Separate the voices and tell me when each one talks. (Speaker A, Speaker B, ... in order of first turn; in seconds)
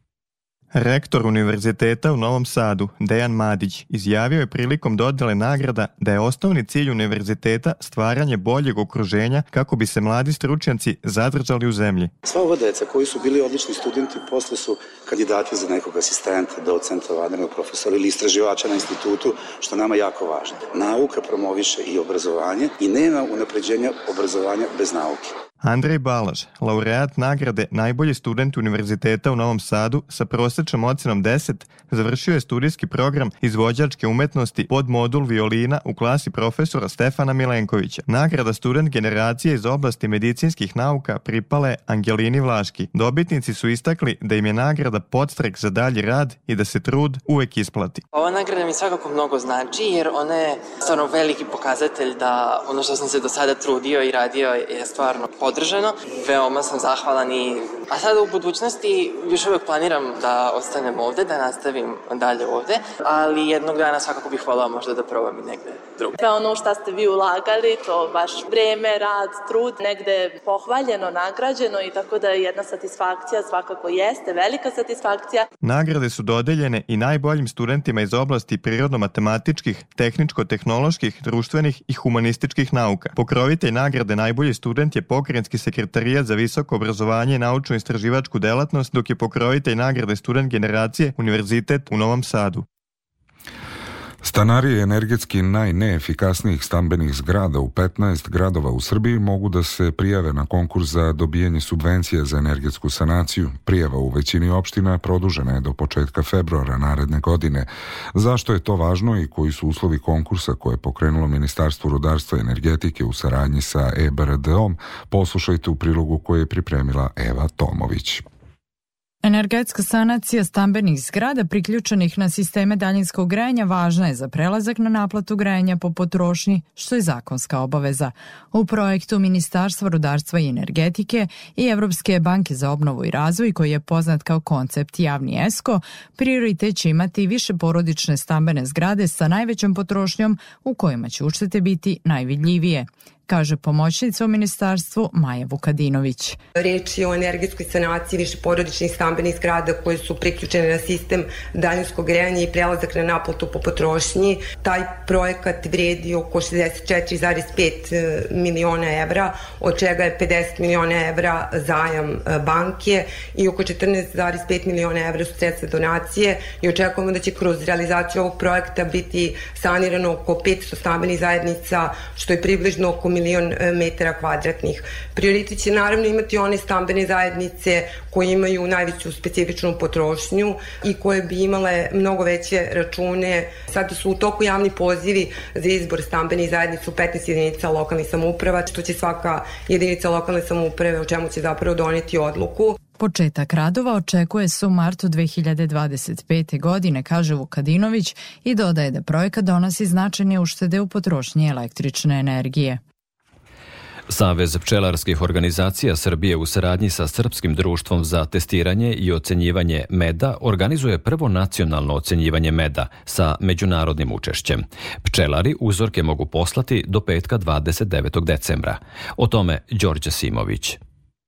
Speaker A: 0.7-12.1, 25.6-48.0, 75.6-92.7
Speaker B: 12.2-25.3
Speaker C: 48.1-66.2
Speaker D: 66.2-75.5
Speaker E: 94.2-118.2
Speaker F: 119.2-146.4, 193.0-202.8
Speaker G: 146.6-192.8
Speaker H: 204.1-220.8